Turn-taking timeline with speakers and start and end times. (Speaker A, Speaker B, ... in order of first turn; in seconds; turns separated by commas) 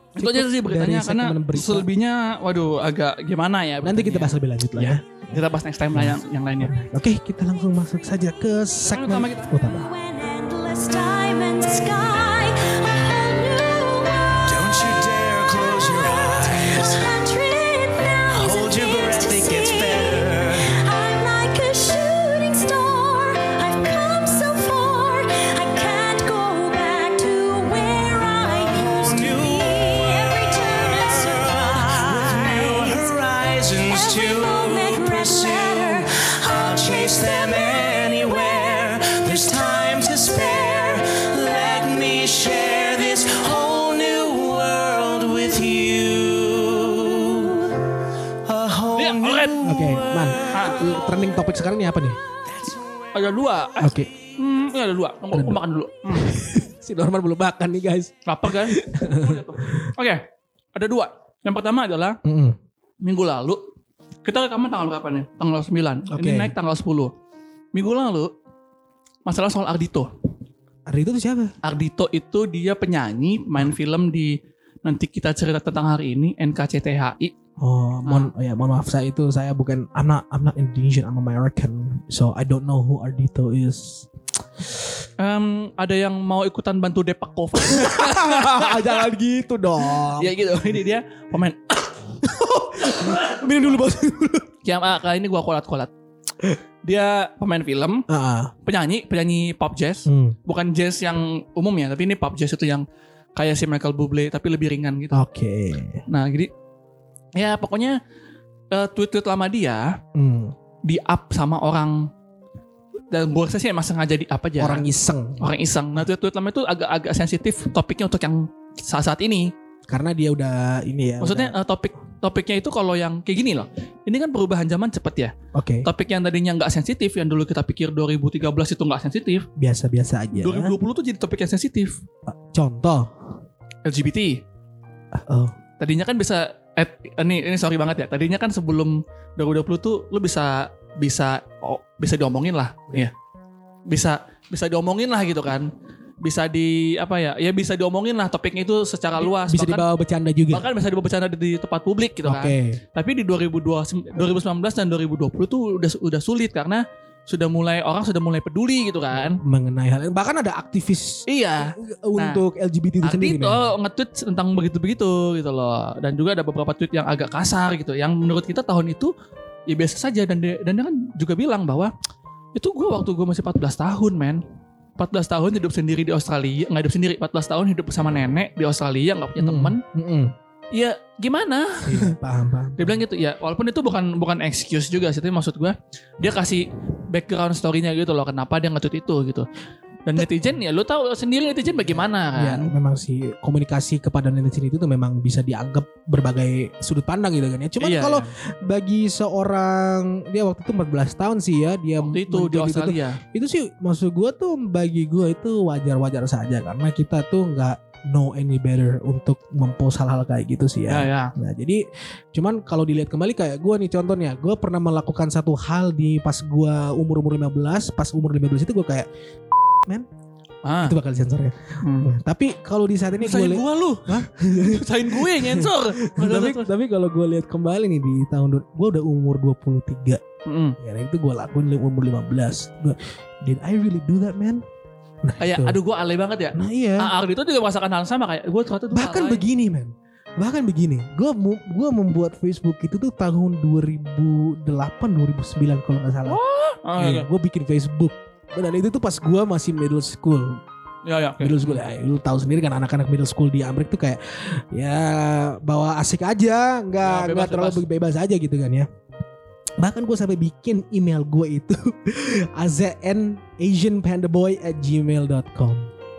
Speaker A: 0.2-6.8, Speaker B: 0.2-1.9, Speaker B: 3.8-5.4, Speaker B: 5.9-9.9, Speaker A: 8.9-9.6, Speaker C: 9.7-14.4, Speaker D: 14.4-17.0, Speaker C: 15.8-43.5, Speaker D: 18.3-20.7, Speaker D: 28.4-47.7, Speaker D: 48.5-50.9, Speaker A: 49.0-49.6, Speaker B: 49.6-52.2, Speaker A: 50.5-50.8, Speaker A: 53.1-56.3, Speaker B: 53.8-54.1, Speaker B: 55.3-55.6, Speaker B: 56.1-59.9, Speaker A: 58.3-62.2, Speaker B: 62.2-62.6, Speaker A: 63.0-63.6, Speaker A: 64.2-67.1, Speaker B: 66.1-66.5, Speaker A: 67.7-68.3, Speaker A: 69.3-70.1, Speaker B: 70.9-71.5, Speaker A: 71.6-77.3, Speaker B: 77.6-84.1, Speaker A: 85.2-89.0, Speaker B: 87.6-90.6, Speaker A: 90.2-92.2, Speaker B: 92.2-94.5, Speaker A: 92.8-93.4, Speaker A: 94.7-95.9, Speaker A: 96.8-98.1, Speaker B: 98.1-98.5, Speaker A: 98.7-102.8, Speaker B: 100.1-100.4, Speaker A: 103.4-105.2, Speaker B: 105.1-106.0, Speaker A: 106.1-106.5, Speaker A: 107.3-108.0, Speaker A: 108.7-110.0, Speaker B: 110.2-110.5, Speaker A: 110.8-112.1, Speaker A: 113.1-114.8, Speaker B: 114.6-115.4, Speaker A: 115.4-119.5, Speaker B: 119.9-121.5, Speaker A: 121.2-129.5, Speaker B: 125.5-125.9, Speaker B: 129.6-130.7, Speaker A: 130.4-132.0, Speaker B: 132.3-133.4, Speaker A: 133.8-134.4, Speaker B: 135.1-135.5, Speaker A: 135.8-143.1, Speaker A: 143.9-145.7, Speaker A: 146.2-149.8, Speaker B: 149.2-150.7, Speaker A: 150.5-159.4, Speaker B: 152.2-152.8, Speaker B: 159.3-163.7, Speaker A: 161.3-162.4, Speaker A: 163.0-169.1, Speaker A: 169.7-171.9, Speaker A: 172.6-174.4, Speaker A: 175.0-179.8, Speaker B: 179.4-180.3, Speaker A: 180.7-182.1, Speaker B: 181.9-183.0, Speaker A: 182.8-189.5, Speaker A: 190.1-192.7, Speaker B: 191.9-219.1, Speaker A: 197.8-198.3, Speaker A: 202.0-203.2, Speaker A: 210.9-211.3, Speaker A: 220.6-221.0, Speaker B: 220.8-230.2, Speaker A: 221.8-222.1, Speaker A: 223.2-226.7, Speaker A: 230.5-230.8, Speaker B: 230.8-234.6, Speaker B: 235.2-235.8, Speaker A: 235.4-239.4, Speaker B: 236.6-237.1, Speaker B: 238.9-246.4, Speaker A: 246.3-247.3, Speaker B: 247.0-250.6, Speaker A: 251.1-251.8, Speaker B: 251.4-258.9, Speaker A: 257.0-257.8, Speaker B: 259.8-265.9